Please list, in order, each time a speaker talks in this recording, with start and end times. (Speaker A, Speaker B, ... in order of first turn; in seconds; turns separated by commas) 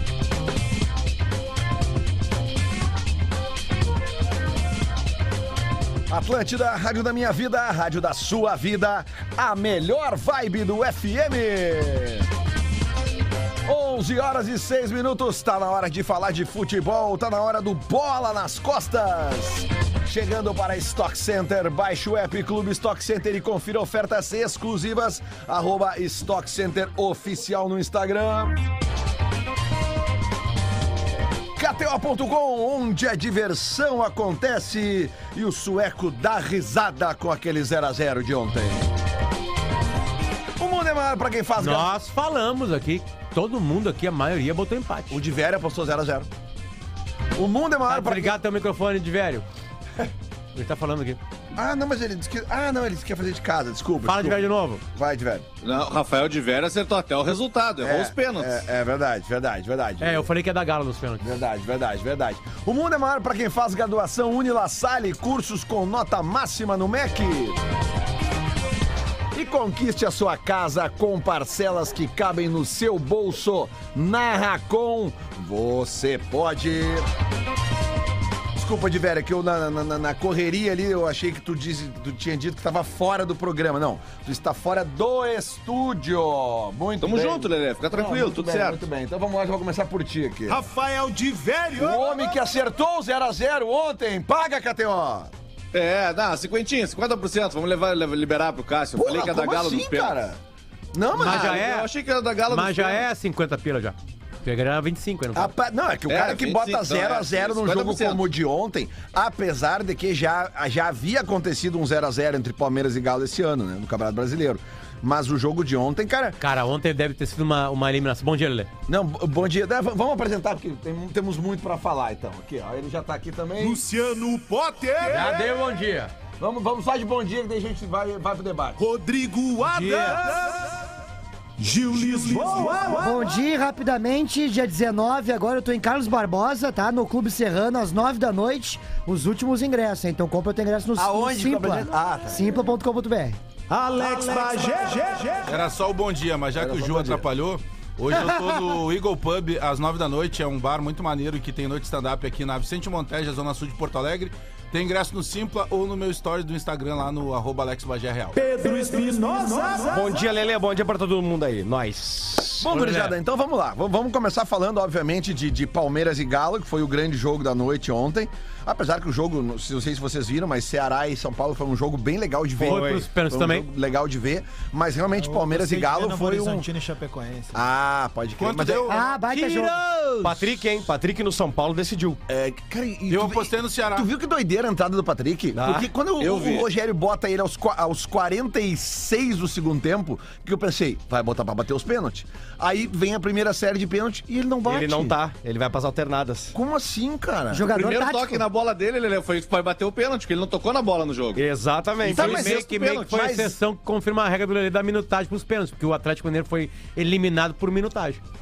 Speaker A: 6.1-12.3, Speaker A: 13.7-28.6, Speaker A: 31.6-38.9, Speaker A: 40.6-41.9, Speaker B: 41.6-45.2, Speaker A: 45.1-46.3, Speaker A: 47.3-48.4, Speaker B: 47.9-49.5, Speaker B: 50.5-51.2, Speaker A: 51.5-55.5, Speaker B: 54.0-54.8, Speaker C: 55.6-58.6, Speaker A: 57.8-60.3, Speaker B: 60.0-61.4, Speaker A: 61.2-67.6, Speaker A: 69.3-77.1, Speaker A: 78.6-90.6, Speaker C: 87.0-88.8, Speaker D: 90.5-92.4, Speaker A: 91.8-95.3, Speaker C: 95.7-100.2, Speaker A: 99.0-100.4, Speaker A: 100.9-101.7, Speaker B: 101.2-101.9, Speaker C: 101.2-103.1, Speaker B: 102.5-105.5, Speaker A: 105.3-116.4, Speaker C: 106.1-108.2, Speaker B: 116.4-118.7, Speaker A: 118.9-123.8, Speaker D: 123.8-125.2, Speaker A: 125.1-125.5, Speaker B: 125.1-126.1, Speaker A: 126.4-128.8, Speaker D: 129.4-130.5, Speaker E: 129.7-130.2, Speaker D: 131.6-133.2, Speaker F: 132.9-143.4, Speaker A: 141.0-142.5, Speaker D: 143.7-145.7, Speaker E: 145.4-158.4, Speaker A: 146.5-147.2, Speaker F: 148.1-148.4, Speaker D: 158.3-160.3, Speaker G: 159.9-162.6, Speaker A: 162.6-176.7, Speaker B: 162.7-163.2, Speaker G: 172.6-173.1, Speaker B: 172.6-173.7, Speaker D: 175.2-177.6, Speaker A: 177.5-179.0, Speaker E: 178.4-179.0, Speaker F: 178.9-179.8, Speaker B: 179.1-180.5, Speaker G: 180.2-182.2, Speaker A: 182.3-195.2, Speaker E: 183.1-184.1, Speaker G: 185.6-185.9, Speaker C: 186.2-186.7, Speaker G: 194.6-196.6, Speaker A: 196.6-197.7, Speaker F: 197.5-198.4, Speaker C: 197.7-201.4, Speaker G: 201.3-202.5, Speaker C: 202.1-203.1, Speaker A: 202.1-203.6, Speaker B: 202.1-208.2